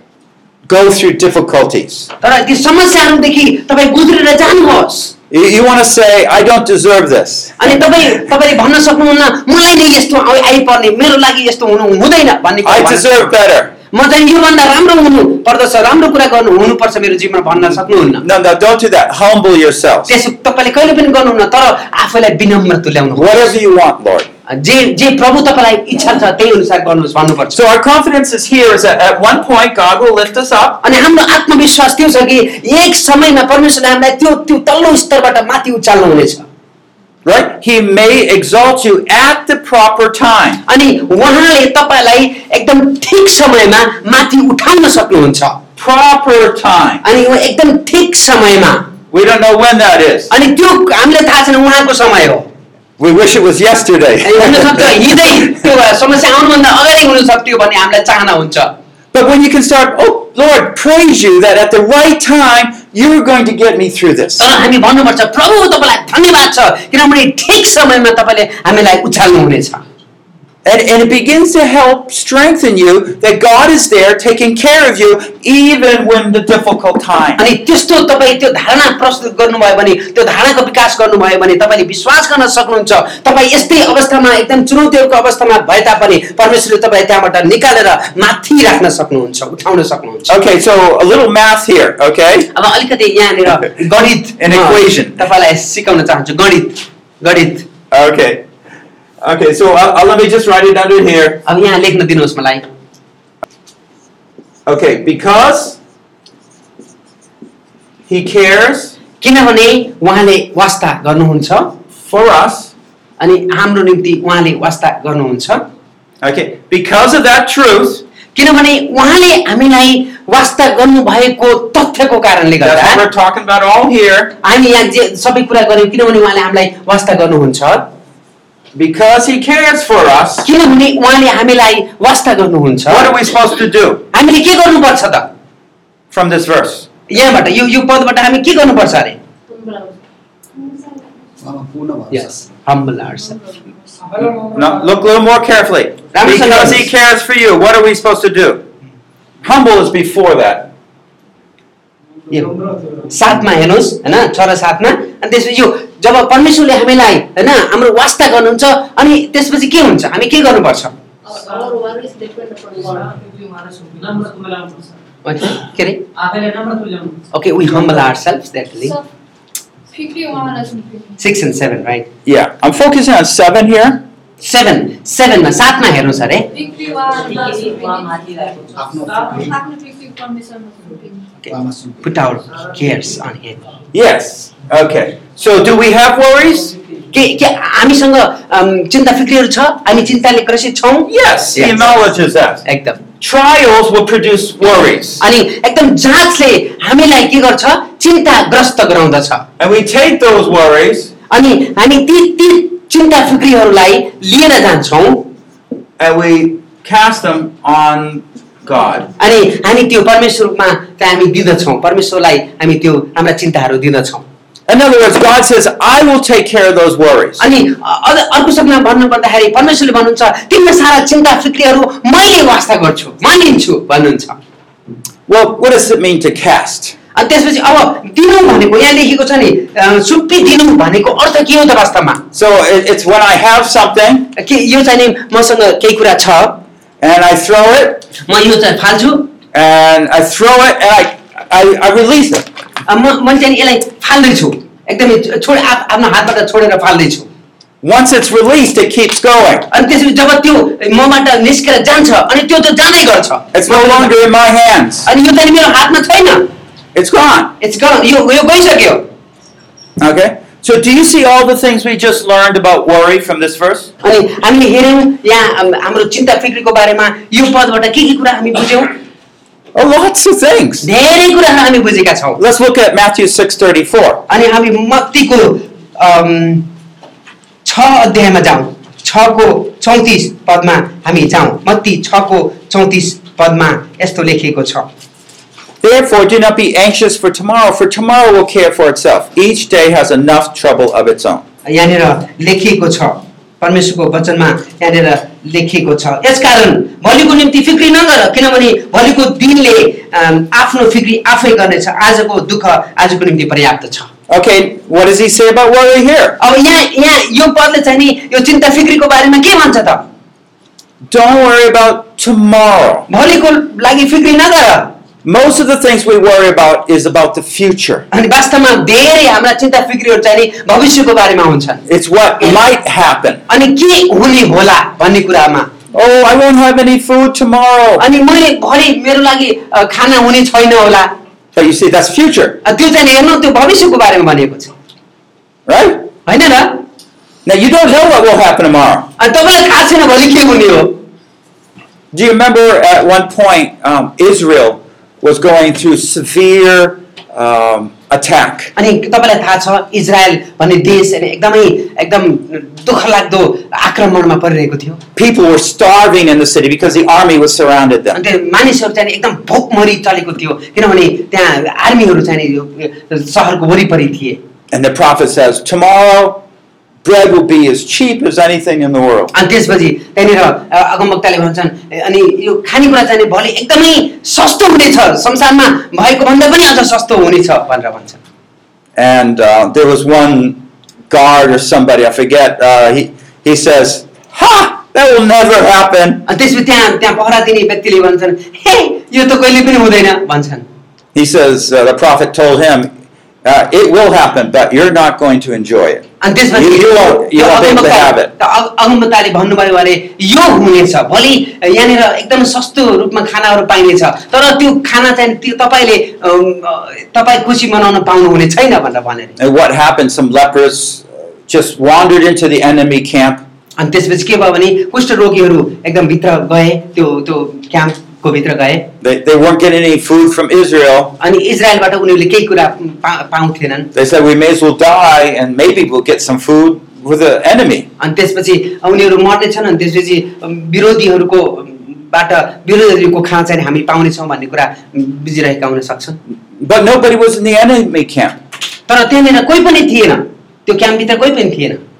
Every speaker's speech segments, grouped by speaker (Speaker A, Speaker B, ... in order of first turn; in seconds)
Speaker A: 0.7-2.1, 5.3-7.8, 12.6-13.7, 18.2-20.1, 23.1-24.3, 27.5-30.8, 37.2-40.6, 45.8-47.0, 49.1-50.3, 53.0-55.0, 59.1-64.5, 70.6-77.4, 90.3-92.5, 94.4-95.2, 97.9-98.5, 99.2-101.4, 104.7-105.8, 108.1-109.0, 112.0-112.7, 116.2-118.0, 122.6-124.3, 128.7-130.5, 132.9-134.0, 136.1-136.9, 144.5-148.6, 149.4-150.7, 172.2-174.0, 183.9-186.7, 191.1-192.6, 193.2-195.2, 199.6-201.1, 206.0-209.1, 214.7-217.4, 225.3-226.9, 232.3-234.3, 237.0-238.1, 239.5-242.4, 247.8-249.7, 253.5-255.1, 256.9-257.5, 260.0-263.9, 269.7-270.9, 272.4-274.2, 285.8-291.4, 304.3-306.4, 311.1-313.1, 315.2-318.1, 321.9-323.4, 325.9-328.0, 331.5-332.6, 335.6-336.1, 337.4-339.1, 342.1-348.7, 355.1-358.2, 364.7-366.4, 367.0-369.3, 378.9-386.2, 391.1-392.9, 393.4-398.3, 409.4-413.4, 419.0-421.1, 423.9-427.9, 436.6-438.4
Speaker B: 2.2-5.1, 7.6-13.3, 13.9-18.2, 20.1-23.5, 24.5-27.6, 30.8-36.5, 40.7-45.6, 47.0-48.9, 50.3-52.5, 54.2-58.7, 64.4-69.8, 77.4-90.3, 92.5-97.7, 101.5-102.6, 109.2-111.8, 113.2-115.7, 118.3-123.0, 124.4-127.9, 130.4-133.1, 134.1-135.3, 137.1-139.2, 142.1-143.4, 146.1-146.9, 152.3-152.5, 153.1-160.9, 165.2-166.1, 167.3-169.0, 171.2-172.1, 174.4-176.5, 181.4-183.6, 187.1-191.8, 192.6-193.0, 195.2-199.4, 201.3-205.3, 209.2-214.2, 217.4-224.4, 227.1-232.2, 234.3-236.6, 238.3-239.3, 242.9-247.3, 249.7-254.1, 255.1-256.5, 257.6-259.1, 264.0-268.9, 270.8-272.4, 274.3-276.7, 277.6-284.9, 291.6-304.1, 306.4-310.0, 313.1-314.9, 318.1-321.8, 323.5-325.7, 328.0-331.1, 332.6-334.7, 336.2-336.8, 339.2-341.0, 348.7-355.0, 358.1-364.4, 369.3-378.2, 386.2-390.7, 396.2-409.4, 413.8-418.9, 421.2-423.9, 428.0-436.2, 438.9-441.8
Speaker C: 139.5-139.9, 144.1-144.5, 161.2-164.9, 166.1-167.2, 169.9-171.1, 176.6-181.2